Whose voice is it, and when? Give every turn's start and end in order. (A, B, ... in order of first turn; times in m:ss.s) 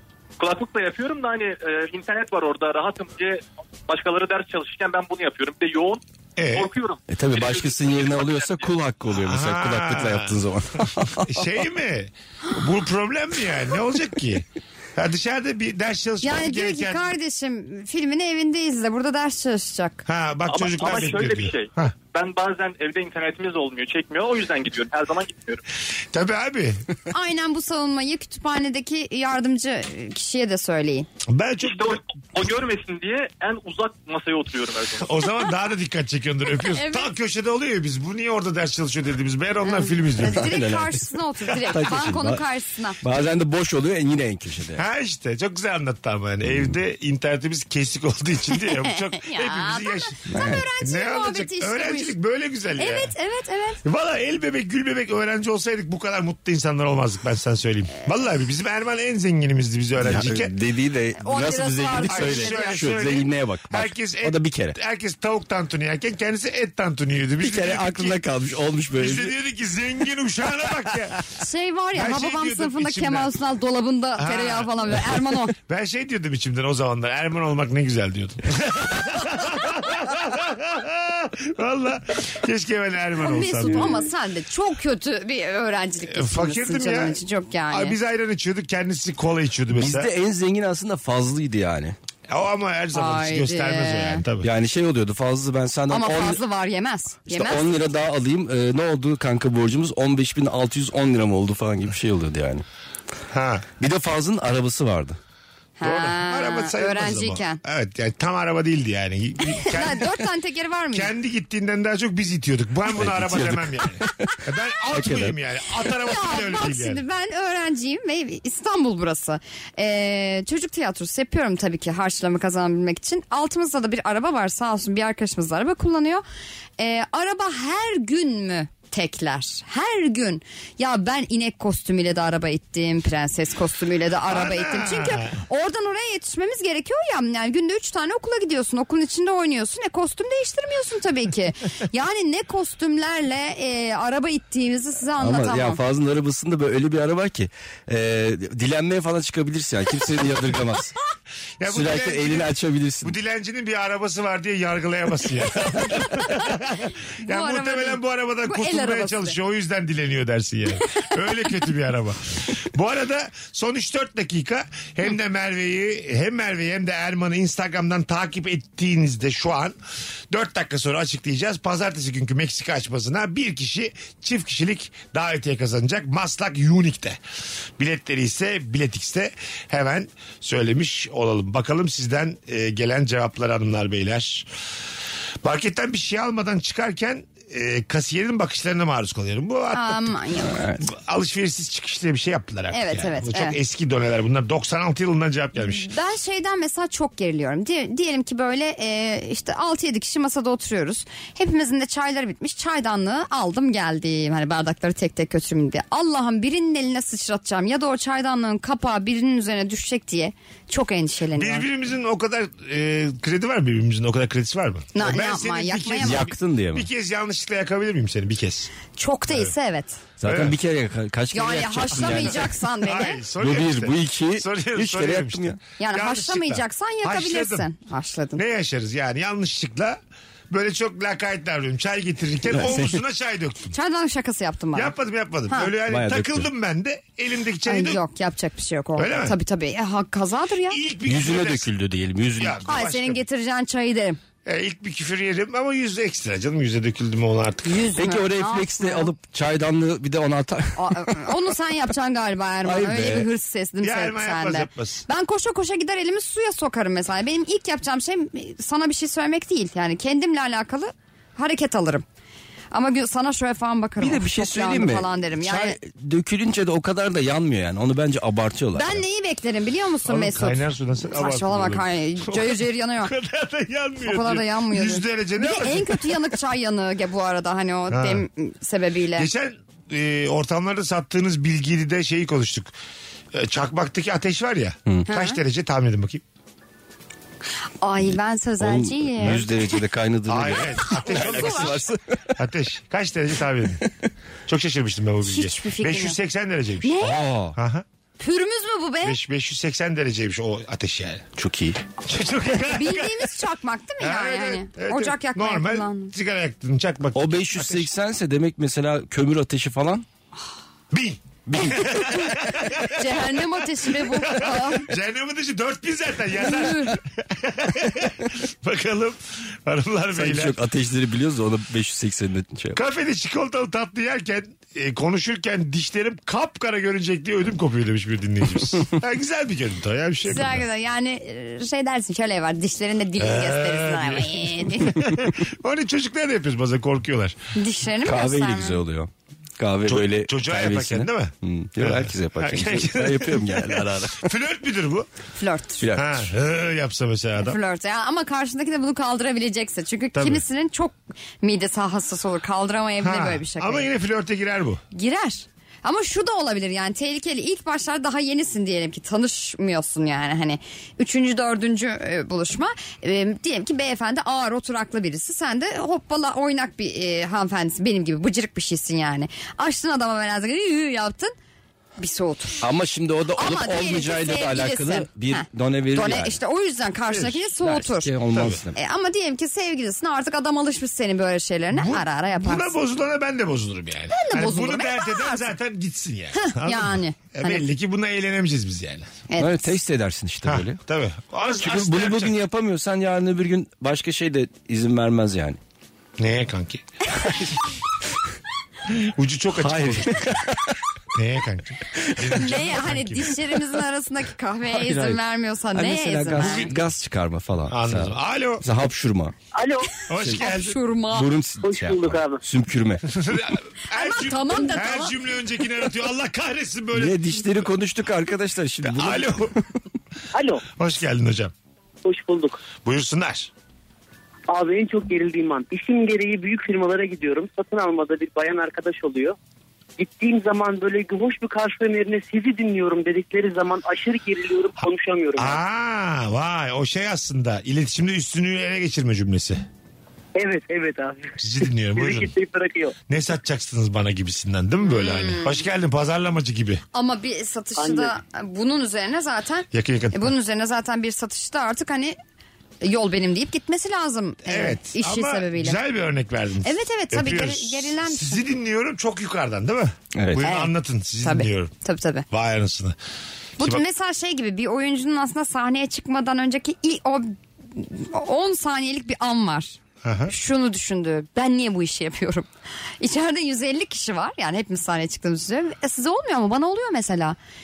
0:00.4-0:06.0 A
0:06.4-0:06.7 B
0:06.5-0:08.7 A
0:07.1-0:11.5 C
0:09.1-0:10.4 B
0:11.2-0:17.1 B
0:16.2-0:20.0 D
0:20.0-0:21.9 B
0:20.5-0:25.6 A
0:26.1-0:26.8 B
0:27.1-0:31.1 D
0:31.3-0:32.0 B
0:31.6-0:35.3 A
0:35.0-0:40.5 B
0:36.7-0:37.1 D
0:39.6-0:43.0 D
0:40.2-0:41.1 C
0:41.6-0:42.4 C
0:43.0-0:44.8 C
0:44.8-0:50.2 B
0:48.9-0:52.1 D
0:50.3-0:50.6 C
0:50.8-0:53.1 B
0:52.8-0:53.8 D
0:53.8-1:00.5 B
1:00.0-1:04.8 C
1:01.2-1:02.9 D
1:02.1-1:08.2 B
1:07.4-1:09.4 C
1:09.0-1:11.2 B
1:11.4-1:15.5 D
1:11.9-1:13.3 B
1:14.2-1:24.0 B
1:23.2-1:28.0 D
1:26.1-1:27.2 B
1:27.7-1:30.1 B
1:29.7-1:32.0 C
1:32.3-1:34.5 B
1:32.9-1:34.2 D
1:34.4-1:36.4 C
1:35.9-1:37.7 D
1:37.3-1:42.6 C
1:43.3-1:43.7 B
1:43.8-1:45.2 C
1:45.8-1:47.6 D
1:45.8-1:50.2 B
1:49.6-1:51.1 D
1:50.9-1:57.0 B
1:53.0-1:54.4 C
1:54.9-1:55.4 C
1:56.0-2:06.2 D
2:06.8-2:25.8 D
2:14.2-2:15.4 B
2:25.2-2:30.9 C
2:31.6-2:49.8 B
2:31.6-2:33.2 C
2:37.2-2:39.4 D
2:50.3-2:57.2 B
2:57.8-3:04.4 B
3:05.4-3:10.2 B
3:09.7-3:10.8 D
3:10.5-3:10.8 C
3:10.8-3:15.8 B
3:12.7-3:13.6 D
3:15.6-3:31.6 D
3:31.4-3:38.7 B
3:34.9-3:36.2 D
3:36.0-3:36.9 C
3:39.0-3:40.0 D
3:40.2-3:42.5 C
3:40.2-3:40.6 B
3:41.3-3:43.2 D
3:41.9-3:47.6 B
3:43.4-3:45.6 C
3:45.8-3:48.4 D
3:48.4-3:50.0 B
3:50.5-3:53.7 B
3:52.4-3:53.0 C
3:53.7-3:54.9 D
3:54.7-3:58.0 B
3:55.9-3:56.5 C
3:57.6-4:00.8 D
3:59.0-3:59.4 B
4:00.7-4:01.7 B
4:01.0-4:02.6 C
4:02.4-4:03.2 B
4:02.6-4:04.2 D
4:04.4-4:07.9 B
4:07.6-4:09.1 D
4:08.0-4:11.3 C
4:10.8-4:22.0 D
4:12.6-4:13.3 C
4:13.8-4:15.0 B
4:22.7-4:25.8 D
4:24.0-4:29.0 C
4:28.7-4:33.1 D
4:30.1-4:36.2 B
4:34.0-4:39.3 D
4:37.9-4:38.2 B
4:39.2-4:42.7 B
4:43.3-4:46.2 B
4:45.1-4:45.4 D
4:47.8-4:49.5 D
4:48.6-4:52.3 C
4:50.3-4:51.8 B
4:50.8-4:51.8 D
4:52.4-4:53.8 B
4:54.5-4:57.0 B
4:55.2-4:56.2 D
4:56.8-4:57.2 D
4:57.0-4:57.6 C
4:57.5-4:57.8 B
4:58.2-4:59.2 D
4:59.0-5:01.3 B
5:01.4-5:01.8 C
5:02.0-5:03.3 B
5:02.7-5:06.1 D
5:04.0-5:07.9 B
5:07.1-5:10.0 C
5:10.9-5:13.3 B
5:11.5-5:12.2 C
5:11.9-5:12.3 D
5:12.9-5:14.9 D
5:13.8-5:20.6 B
5:16.4-5:16.9 D
5:20.1-5:22.8 C
5:22.7-5:30.6 B
5:30.2-5:35.0 D
5:33.2-5:37.4 B
5:37.5-5:38.8 D
5:38.0-5:44.2 C
5:39.8-5:45.1 B
5:45.4-5:45.9 D
5:45.8-5:46.3 C
5:45.9-5:47.6 B
5:47.4-5:53.9 D
5:50.1-5:50.4 B
5:53.0-5:54.8 B
5:54.9-6:11.3 D
6:12.0-6:12.6 D
6:12.6-6:16.4 C
6:13.4-6:18.1 D
6:17.1-6:17.4 B
6:17.6-6:18.8 C
6:18.3-6:18.6 B
6:18.7-6:22.7 D
6:21.7-6:29.1 B
6:24.1-6:25.5 D
6:26.3-6:27.7 D
6:29.3-6:29.8 D
6:29.4-6:30.8 C
6:30.4-6:32.3 B
6:31.5-6:35.6 C
6:36.2-6:36.8 B
6:38.9-6:40.3 B
6:39.6-6:40.7 C
6:41.1-6:43.4 B
6:42.3-6:46.7 D
6:44.7-6:45.2 C
6:45.7-6:49.3 C
6:46.4-6:46.8 B
6:47.7-6:48.6 B
6:49.5-6:50.0 E
6:50.1-6:50.8 B
6:50.2-6:50.5 C
6:50.4-6:51.3 D
6:51.1-6:53.0 C
6:51.6-6:52.4 E
6:53.1-6:57.6 B
6:53.9-6:55.1 D
6:56.9-6:59.5 C
6:58.8-6:59.5 B
7:00.3-7:00.6 E
7:00.7-7:01.5 B
7:02.0-7:02.6 E
7:02.8-7:03.5 B
7:04.5-7:09.4 E
7:10.0-7:15.6 E
7:15.4-7:19.6 B
7:20.3-7:21.3 E
7:21.4-7:22.3 B
7:21.9-7:22.9 E
7:23.1-7:26.8 B
7:24.8-7:25.5 D
7:26.9-7:32.2 D
7:27.8-7:28.2 E
7:29.7-7:30.3 B
7:32.8-7:35.8 D
7:34.4-7:41.7 B
7:36.6-7:38.4 D
7:40.1-7:40.4 C
7:40.4-7:42.2 D
7:42.3-7:43.0 B
7:43.6-7:52.5 D
7:50.0-7:50.3 B
7:53.0-7:57.4 D